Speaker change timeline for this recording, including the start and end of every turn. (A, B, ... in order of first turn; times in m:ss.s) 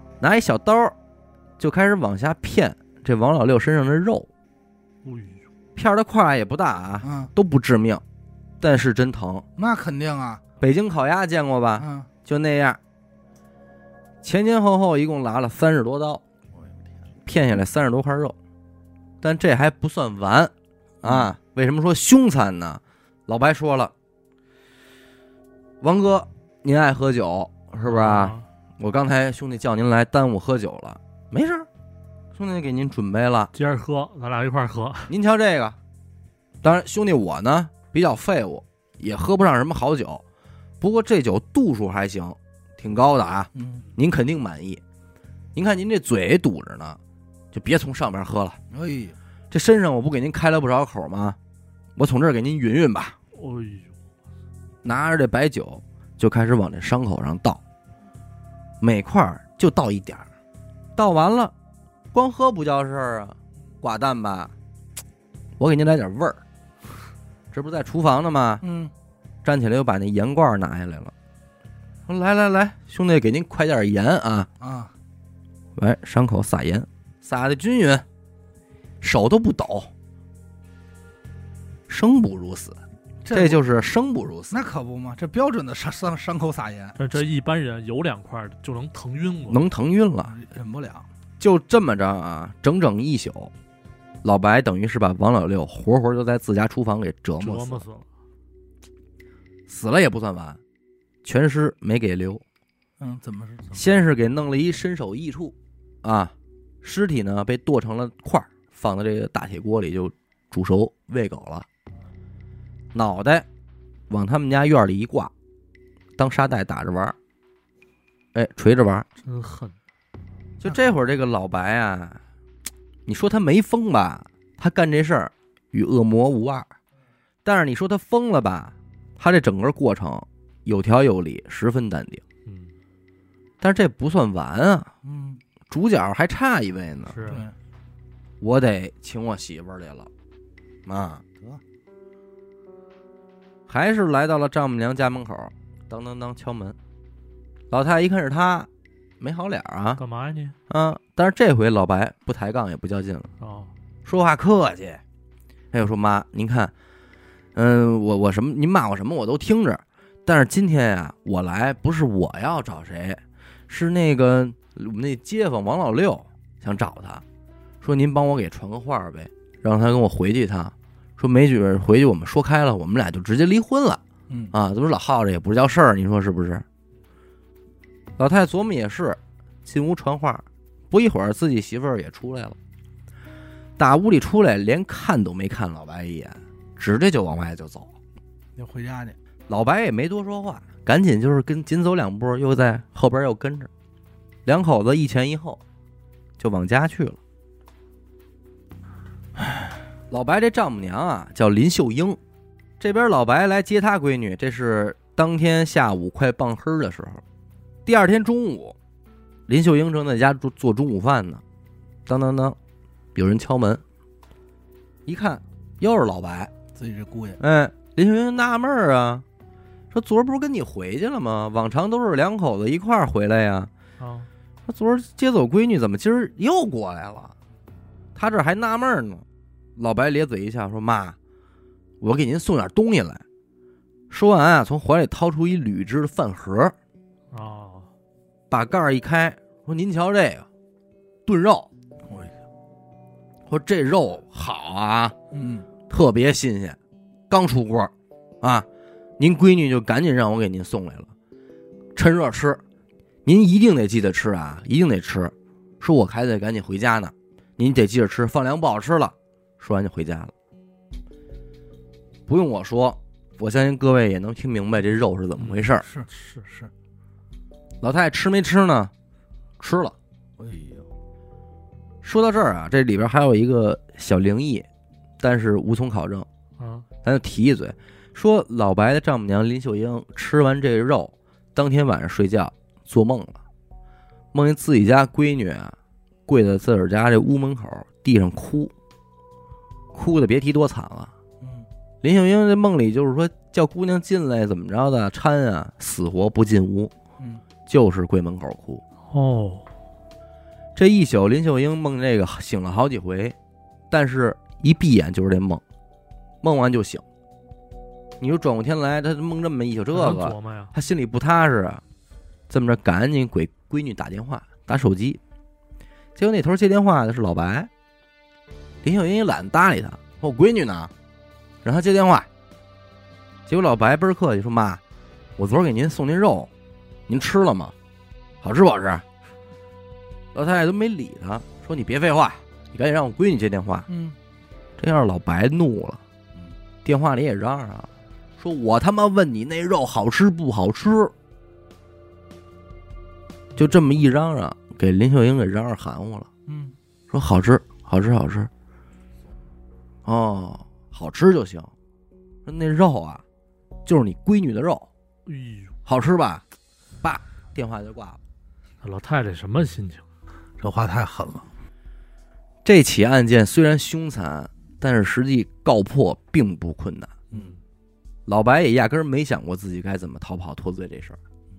0:00.2-0:00.9 A
0:01.6-0:04.3 A
0:05.0-0:05.4 B
0:05.8-0:08.0 A
0:07.0-0:07.3 C
0:08.6-0:09.4 A
0:09.6-0:10.4 C
0:10.6-0:12.8 A
0:11.8-0:12.1 C
0:14.2-0:16.2 A
0:17.2-0:18.4 A
0:19.2-0:23.9 A
0:25.8-0:31.7 A
0:27.8-0:28.4 B
0:32.3-0:33.5 A
0:33.5-0:35.1 B
0:35.1-0:35.8 A
0:36.6-0:40.2 A
0:40.8-0:44.8 A
0:43.5-0:43.8 C
0:45.5-0:47.0 A
0:47.5-0:48.6 A
0:48.7-0:49.2 C
0:49.5-0:51.4 A
0:52.0-0:53.2 A
0:53.3-0:54.0 B
0:54.8-0:57.6 A
0:58.8-1:00.2 A
1:01.0-1:01.5 A
1:02.1-1:04.5 A
1:05.6-1:06.4 A
1:07.5-1:08.6 A
1:08.6-1:08.9 C
1:09.4-1:11.1 A
1:12.1-1:14.5 A
1:14.6-1:14.9 C
1:15.8-1:18.0 A
1:19.0-1:19.9 A
1:21.9-1:22.8 A
1:23.2-1:23.6 C
1:23.3-1:24.6 A
1:24.5-1:27.1 C
1:27.0-1:29.6 B
1:29.5-1:30.3 A
1:30.2-1:31.1 C
1:31.4-1:33.5 A
1:34.2-1:37.8 A
1:37.4-1:38.1 B
1:39.7-1:40.6 A
1:41.2-1:42.4 A
1:43.0-1:43.8 C
1:43.7-1:51.6 A
1:52.9-1:53.5 A
1:54.1-1:55.3 A
1:56.2-1:57.2 A
1:58.3-1:59.0 A
1:59.2-1:59.7 B
2:00.6-2:02.2 A
2:03.1-2:06.7 A
2:07.4-2:12.2 A
2:12.4-2:12.7 B
2:13.6-2:14.9 A
2:15.0-2:15.4 C
2:15.7-2:17.3 A
2:17.1-2:17.5 B
2:17.3-2:17.5 C
2:18.4-2:20.1 A
2:20.8-2:21.2 A
2:23.7-2:26.8 A
2:27.7-2:28.7 A
2:29.2-2:30.0 A
2:30.0-2:30.6 B
2:30.7-2:33.3 A
2:33.4-2:33.7 B
2:34.0-2:35.0 A
2:35.7-2:36.7 A
2:37.5-2:47.2 A
2:47.8-2:54.0 A
2:54.3-2:54.5 C
2:54.5-2:56.6 A
2:58.2-3:02.6 A
3:03.8-3:07.9 A
3:08.6-3:09.2 C
3:09.5-3:13.7 A
3:14.4-3:15.6 A
3:16.4-3:17.2 A
3:20.1-3:22.2 A
3:22.8-3:27.2 A
3:27.8-3:28.8 A
3:29.5-3:31.4 A
3:32.1-3:32.6 A
3:33.1-3:33.8 A
3:35.0-3:36.5 A
3:36.7-3:37.4 C
3:37.4-3:39.2 A
3:39.9-3:43.7 A
3:44.0-3:44.3 B
3:44.7-3:47.3 A
3:48.1-3:49.2 A
3:49.8-3:51.2 A
3:52.0-3:53.2 A
3:54.1-3:56.7 A
3:57.3-3:57.9 B
3:58.5-4:00.5 A
4:01.2-4:01.7 A
4:02.1-4:02.4 C
4:03.5-4:05.2 A
4:05.3-4:05.7 C
4:05.9-4:06.8 A
4:07.3-4:08.7 A
4:09.2-4:11.1 A
4:11.9-4:12.6 A
4:13.2-4:20.3 A
4:22.3-4:25.8 A
4:25.8-4:26.7 C
4:26.1-4:26.4 B
4:27.8-4:28.9 A
4:29.6-4:29.9 A
4:30.4-4:30.9 C
4:32.0-4:34.7 A
4:35.2-4:36.3 A
4:36.6-4:36.9 B
4:37.0-4:43.4 A
4:44.3-4:45.8 A
4:46.3-4:48.7 A
4:49.9-4:51.1 A
4:51.4-4:51.7 C
4:52.0-4:56.9 A
4:57.7-4:58.8 A
4:59.1-4:59.7 B
5:00.8-5:03.4 A
5:03.9-5:05.6 A
5:06.4-5:07.0 A
5:08.2-5:11.8 A
5:09.9-5:10.7 B
5:12.5-5:15.2 A
5:16.2-5:17.7 A
5:18.8-5:20.9 A
5:21.6-5:22.3 A
5:23.5-5:24.8 A
5:25.4-5:26.5 A
5:27.1-5:27.7 A
5:28.4-5:29.0 A
5:30.3-5:33.9 A
5:33.9-5:34.2 C
5:34.8-5:36.0 A
5:36.8-5:41.1 A
5:43.6-5:46.3 A
5:46.5-5:46.8 C
5:47.1-5:48.5 A
5:50.0-5:51.7 A
5:52.4-5:53.2 A
5:53.8-5:54.9 A
5:55.2-5:55.7 B
5:55.8-5:56.4 A
5:57.0-5:58.2 A
5:58.8-6:00.0 B
6:00.6-6:01.5 C
6:02.6-6:07.1 A
6:08.3-6:11.2 A